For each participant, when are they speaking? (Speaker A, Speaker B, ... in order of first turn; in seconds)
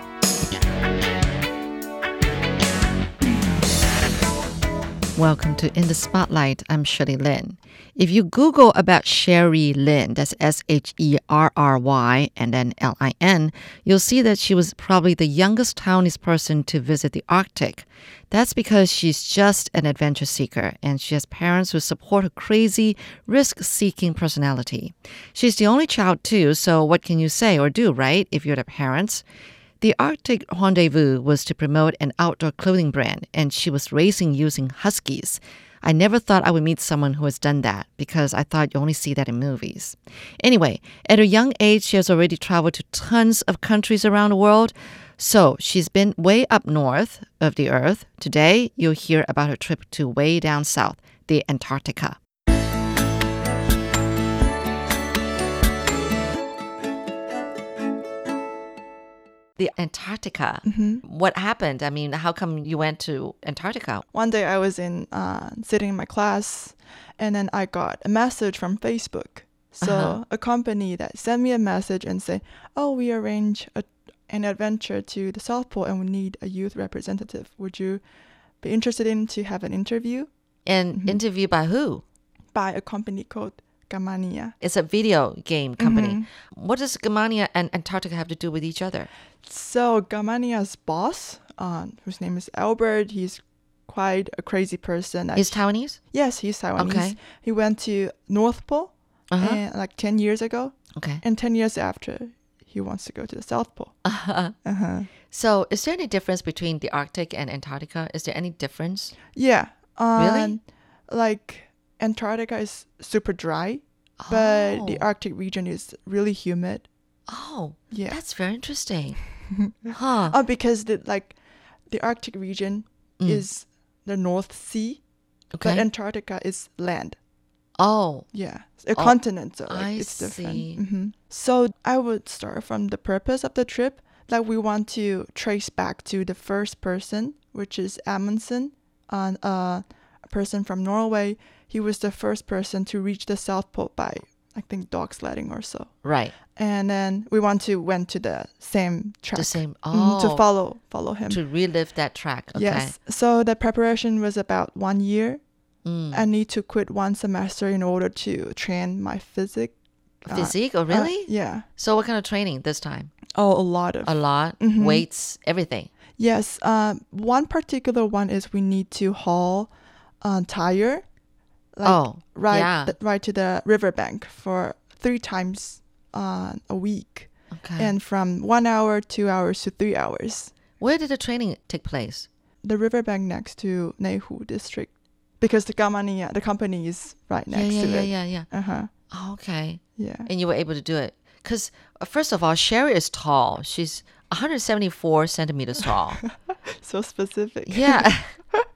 Speaker A: 5.2-29.2, 29.8-52.2, 59.6-64.1, 69.8-70.2, 80.7-82.0, 84.6-89.1, 95.3-96.0, 96.8-97.2, 99.3-99.6, 101.0-101.2, 104.0-104.5, 105.3-109.1, 110.2-110.6, 114.2-115.0, 117.3-119.2, 119.9-120.4, 123.2-123.5, 125.5-125.8, 127.8-128.3, 128.9-130.8, 146.0-146.3, 149.3-150.5, 151.3-153.0, 155.8-156.3, 160.3-163.1, 164.0-165.9, 171.8-172.9, 177.5-177.9, 180.8-182.3, 187.5-188.5, 189.1-196.2, 197.7-198.4
Speaker B: 60.6-61.0, 64.1-78.0, 78.6-80.3, 80.9-81.2, 82.5-84.6, 85.8-86.3, 89.5-104.0, 104.7-105.1, 109.3-116.9, 117.9-118.2, 119.5-121.4, 121.9-125.0, 125.6-127.2, 128.3-145.9, 146.6-151.4, 152.5-155.4, 156.1-161.7, 163.3-165.1, 166.2-169.7, 170.2-171.0, 171.8-180.5, 182.6-188.9, 190.0-190.3, 196.8-198.7